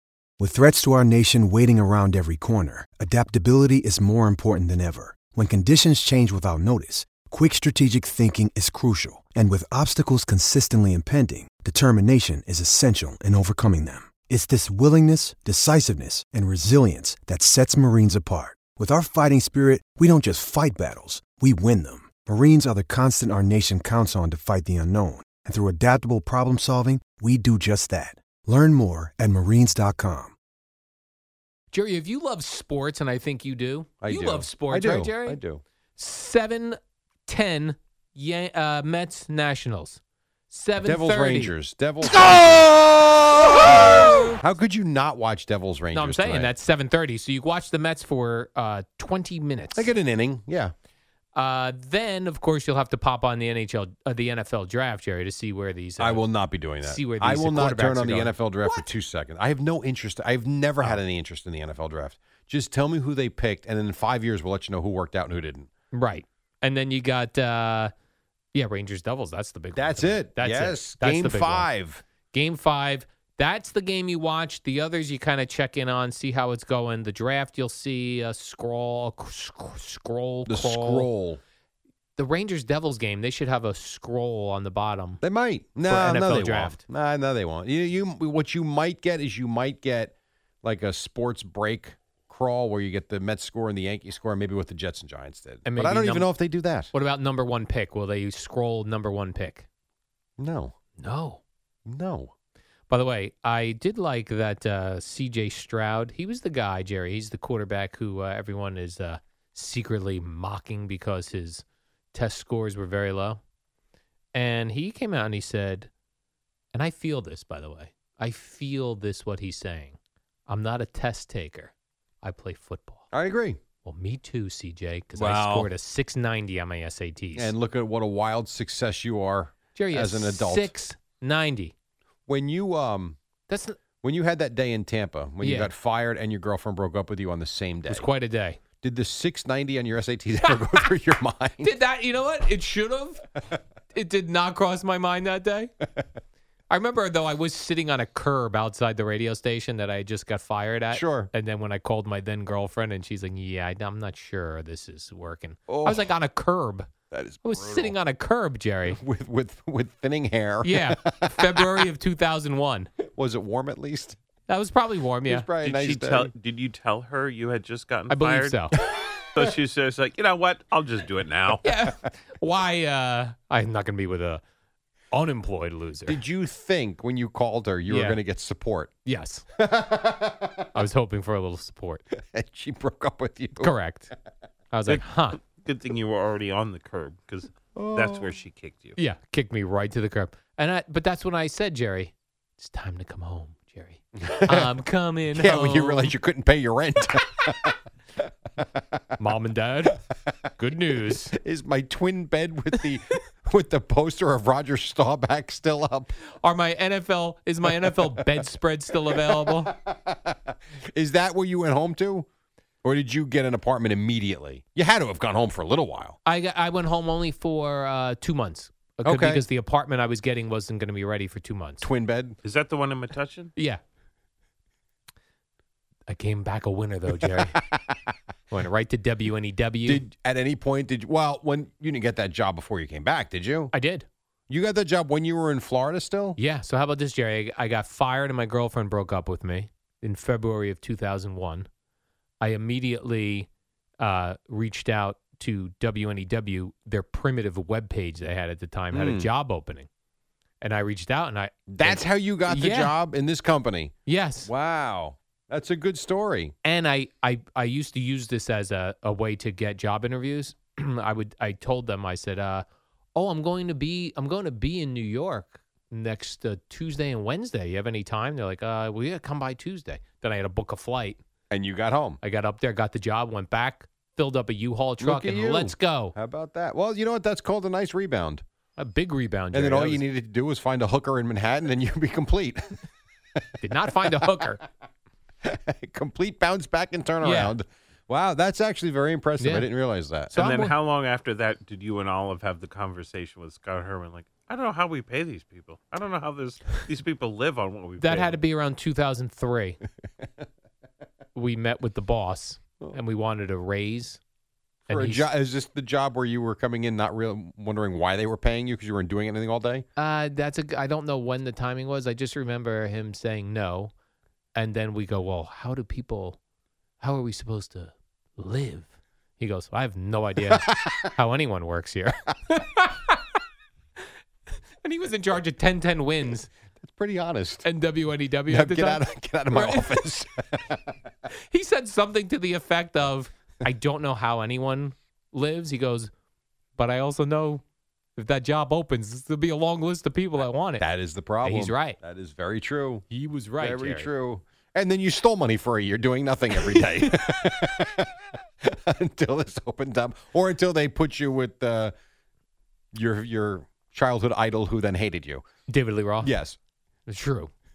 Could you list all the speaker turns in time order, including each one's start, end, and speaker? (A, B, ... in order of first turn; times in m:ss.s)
0:00.4-0:30.3 A
0:31.7-0:35.4 B
0:34.0-0:35.6 C
0:36.0-0:41.5 B
0:40.8-0:42.8 C
0:42.1-0:42.7 B
0:43.4-0:44.4 B
0:43.6-0:46.5 C
0:45.9-0:49.9 B
0:49.7-0:50.7 C
0:51.3-0:56.3 B
0:56.0-1:05.7 C
0:56.8-0:58.8 B
1:05.9-1:07.9 B
1:08.5-1:11.7 B
1:09.7-1:12.0 C
1:12.3-1:21.1 B
1:20.5-1:21.4 C
1:22.2-1:25.2 B
1:25.2-1:36.9 C
1:25.9-1:26.8 B
1:35.6-1:36.3 B
1:36.9-1:39.6 B
1:40.4-1:40.8 C
1:41.0-1:41.4 B
1:41.8-1:42.3 C
1:42.9-1:53.4 B
1:54.3-1:55.9 B
1:56.7-1:59.9 B
2:00.5-2:03.0 B
2:03.1-2:03.6 C
2:03.8-2:07.5 B
2:05.2-2:05.7 C
2:07.4-2:10.7 C
2:09.7-2:11.7 B
2:12.3-2:13.2 C
2:13.5-2:13.8 B
2:14.0-2:18.1 C
2:15.4-2:15.7 B
2:17.9-2:18.6 B
2:18.8-2:21.7 C
2:21.6-2:23.3 B
2:23.9-2:25.7 B
2:26.7-2:36.9 B
2:30.9-2:31.3 C
2:35.7-2:36.1 C
2:37.1-2:37.9 C
2:37.4-2:39.0 B
2:38.9-2:41.8 C
2:40.6-2:42.9 B
2:43.0-2:44.2 C
2:44.5-2:45.5 B
2:45.2-2:46.3 C
2:45.6-2:48.6 D
2:48.1-2:48.7 B
2:49.3-2:51.6 D
2:51.6-2:54.4 B
2:55.1-2:56.2 B
2:56.1-2:58.9 C
2:57.9-2:58.2 B
2:59.0-2:59.4 B
2:59.6-3:00.6 C
3:00.7-3:02.0 B
3:02.2-3:03.7 C
3:03.6-3:04.1 B
3:04.7-3:05.4 B
3:04.9-3:09.0 D
3:07.8-3:08.3 C
3:09.0-3:16.1 B
3:14.2-3:14.7 C
3:15.3-3:17.8 C
3:19.2-3:20.0 B
3:20.6-3:21.3 B
3:21.0-3:26.1 C
3:26.4-3:29.7 B
3:29.1-3:32.2 C
3:32.8-3:36.2 C
3:36.2-3:41.9 B
3:39.0-3:39.4 C
3:41.8-3:42.4 C
3:42.4-3:43.5 D
3:43.6-3:43.8 B
3:46.1-3:47.6 B
3:48.5-3:50.0 B
3:49.8-3:53.7 C
3:53.7-3:54.0 B
3:54.5-3:56.4 C
3:56.4-4:01.7 B
4:02.4-4:03.5 B
4:04.0-4:09.9 B
4:08.9-4:09.3 C
4:10.6-4:12.9 B
4:11.7-4:16.5 C
4:14.0-4:14.5 B
4:16.6-4:22.6 B
4:23.1-4:31.2 B
4:31.5-4:32.2 C
4:32.2-4:36.1 B
4:35.0-4:38.4 C
4:38.8-4:40.0 B
4:39.5-4:42.8 C
4:43.4-4:44.1 C
4:43.6-4:44.6 B
4:45.4-4:50.4 C
4:47.2-4:47.5 B
4:49.4-4:49.7 B
4:50.3-4:50.7 B
4:50.3-4:58.4 D
4:58.0-4:59.8 B
5:01.3-5:04.2 B
5:04.9-5:05.3 B
5:04.9-5:09.8 C
5:10.0-5:13.9 B
5:14.5-5:16.4 B
5:17.0-5:23.2 B
5:24.8-5:26.5 B
5:26.8-5:27.6 C
5:27.6-5:30.0 B
5:28.5-5:30.8 C
5:31.3-5:36.1 B
5:36.8-5:37.6 B
5:38.2-5:40.8 B
5:40.8-5:43.0 C
5:41.4-5:42.0 B
5:43.1-5:44.1 B
5:43.6-5:48.1 C
5:46.6-5:47.1 B
5:48.6-5:51.9 C
5:52.9-5:55.4 C
5:55.7-5:56.3 B
5:56.2-5:56.6 C
5:57.1-5:57.5 B